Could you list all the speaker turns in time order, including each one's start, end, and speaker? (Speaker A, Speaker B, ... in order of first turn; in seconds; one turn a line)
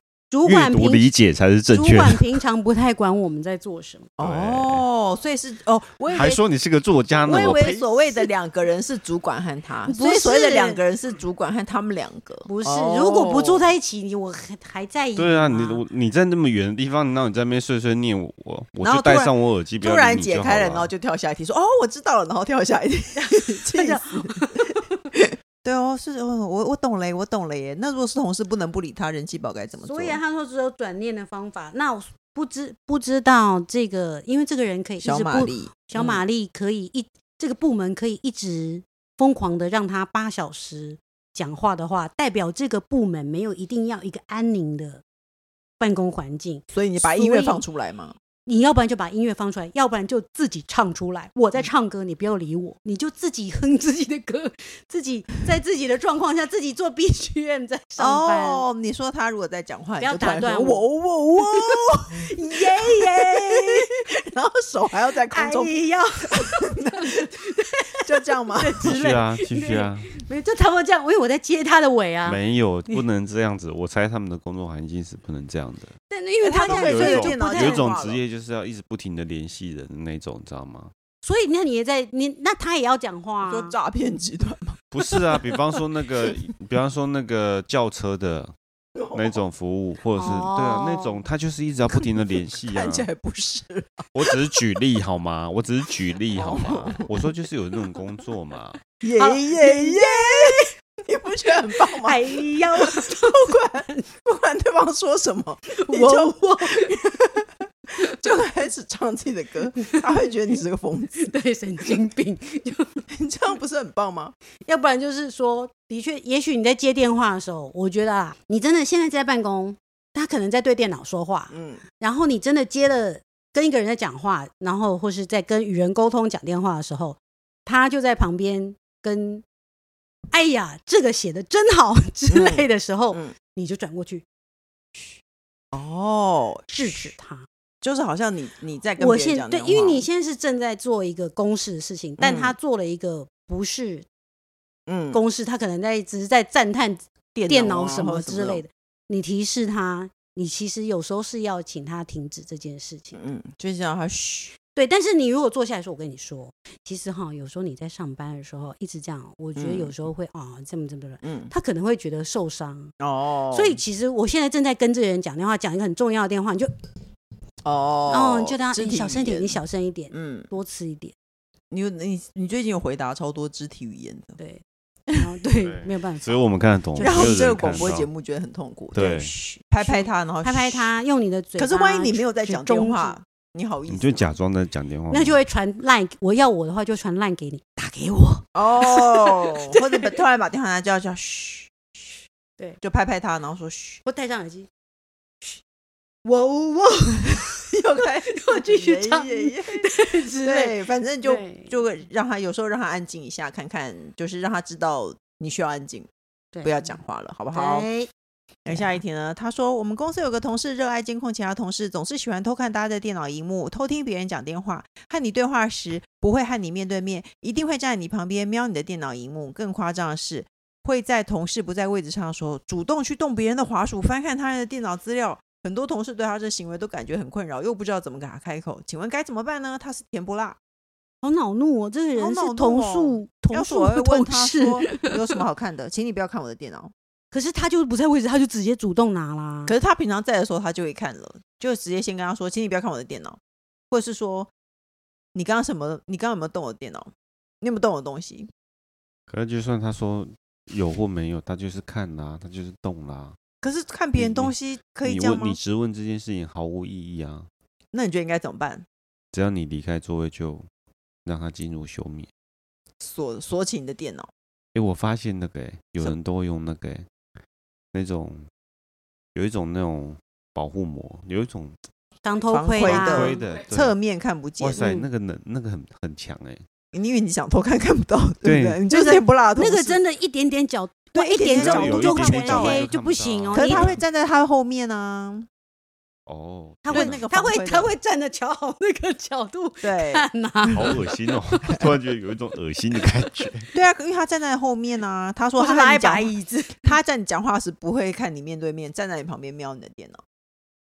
Speaker A: 0.3-1.1
Speaker B: 0.4-2.3
Speaker A: 1.7-4.1
Speaker C: 4.2-6.4
Speaker B: 4.2-4.8
Speaker B: 6.1-7.8
Speaker C: 7.2-13.6
Speaker A: 7.3-7.6
Speaker A: 9.9-10.8
Speaker A: 12.4-15.8
Speaker B: 15.2-20.9
Speaker C: 18.8-30.2
Speaker A: 23.2-24.6
Speaker A: 29.8-45.0
Speaker C: 35.0-36.2
Speaker A: 45.8-47.6
Speaker C: 46.7-48.1
Speaker A: 48.5-58.6
Speaker C: 58.0-62.3
Speaker A: 60.0-64.0
Speaker C: 62.8-63.6
Speaker C: 64.2-67.2
Speaker A: 65.3-67.8
Speaker C: 68.0-68.9
Speaker A: 68.6-73.0
Speaker B: 68.8-70.1
Speaker B: 72.2-75.9
Speaker A: 76.1-77.9
Speaker C: 76.4-78.2
Speaker B: 76.6-80.9
Speaker A: 81.2-83.7
Speaker C: 83.4-85.2
Speaker B: 84.9-88.5
Speaker B: 89.1-93.1
Speaker A: 90.2-91.2
Speaker C: 91.9-94.3
Speaker B: 94.1-98.8
Speaker C: 96.3-97.1
Speaker C: 99.0-111.2
Speaker A: 99.2-100.7
Speaker A: 102.0-104.0
Speaker A: 105.7-107.2
Speaker A: 111.1-113.0
Speaker C: 113.1-114.3
Speaker A: 114.6-129.4
Speaker C: 121.5-121.8
Speaker A: 130.3-134.2
Speaker C: 132.3-133.3
Speaker C: 135.7-137.1
Speaker A: 136.7-137.5
Speaker C: 137.8-140.1
Speaker A: 139.0-144.1
Speaker C: 142.2-142.5
Speaker C: 144.9-145.2
Speaker A: 145.1-153.2
Speaker C: 147.3-148.6
Speaker C: 153.1-154.5
Speaker A: 154.7-162.9
Speaker C: 159.6-159.9
Speaker C: 161.2-161.5
Speaker C: 163.0-163.8
Speaker A: 163.5-166.7
Speaker C: 167.6-169.6
Speaker A: 168.1-171.1
Speaker C: 170.1-170.5
Speaker C: 171.7-174.4
Speaker A: 174.4-177.9
Speaker B: 175.6-178.1
Speaker C: 177.0-179.1
Speaker B: 178.9-179.3
Speaker A: 178.9-183.1
Speaker C: 179.7-180.9
Speaker C: 181.6-184.3
Speaker B: 183.9-185.4
Speaker A: 185.1-189.3
Speaker C: 188.5-191.7
Speaker C: 192.8-194.0
Speaker A: 194.1-194.7
Speaker A: 196.2-197.7
Speaker C: 197.7-206.1
Speaker A: 198.3-201.7
Speaker A: 206.5-207.0
Speaker C: 206.6-207.9
Speaker A: 207.5-208.1
Speaker C: 208.7-230.6
Speaker A: 208.7-208.9
Speaker A: 231.2-235.1
Speaker C: 232.1-236.9
Speaker A: 237.3-239.7
Speaker C: 239.7-243.4
Speaker C: 243.9-244.5
Speaker C: 245.3-248.5
Speaker B: 249.3-253.3
Speaker C: 253.6-255.6
Speaker B: 254.1-257.5
Speaker C: 257.9-258.8
Speaker B: 259.3-260.6
Speaker B: 261.2-262.3
Speaker C: 263.0-264.3
Speaker B: 264.7-267.1
Speaker B: 267.9-268.4
Speaker B: 269.3-271.8
Speaker A: 272.2-273.4
Speaker C: 272.5-274.9
Speaker B: 272.8-273.9
Speaker B: 274.6-276.6
Speaker A: 274.8-275.1
Speaker C: 276.9-280.0
Speaker B: 278.4-278.8
Speaker A: 278.9-283.9
Speaker C: 281.1-282.9
Speaker B: 281.5-284.0
Speaker C: 283.5-285.5
Speaker B: 286.3-287.2
Speaker A: 286.8-291.9
Speaker C: 286.9-287.9
Speaker C: 289.8-290.9
Speaker B: 290.7-293.7
Speaker C: 293.7-300.2
Speaker A: 295.6-296.9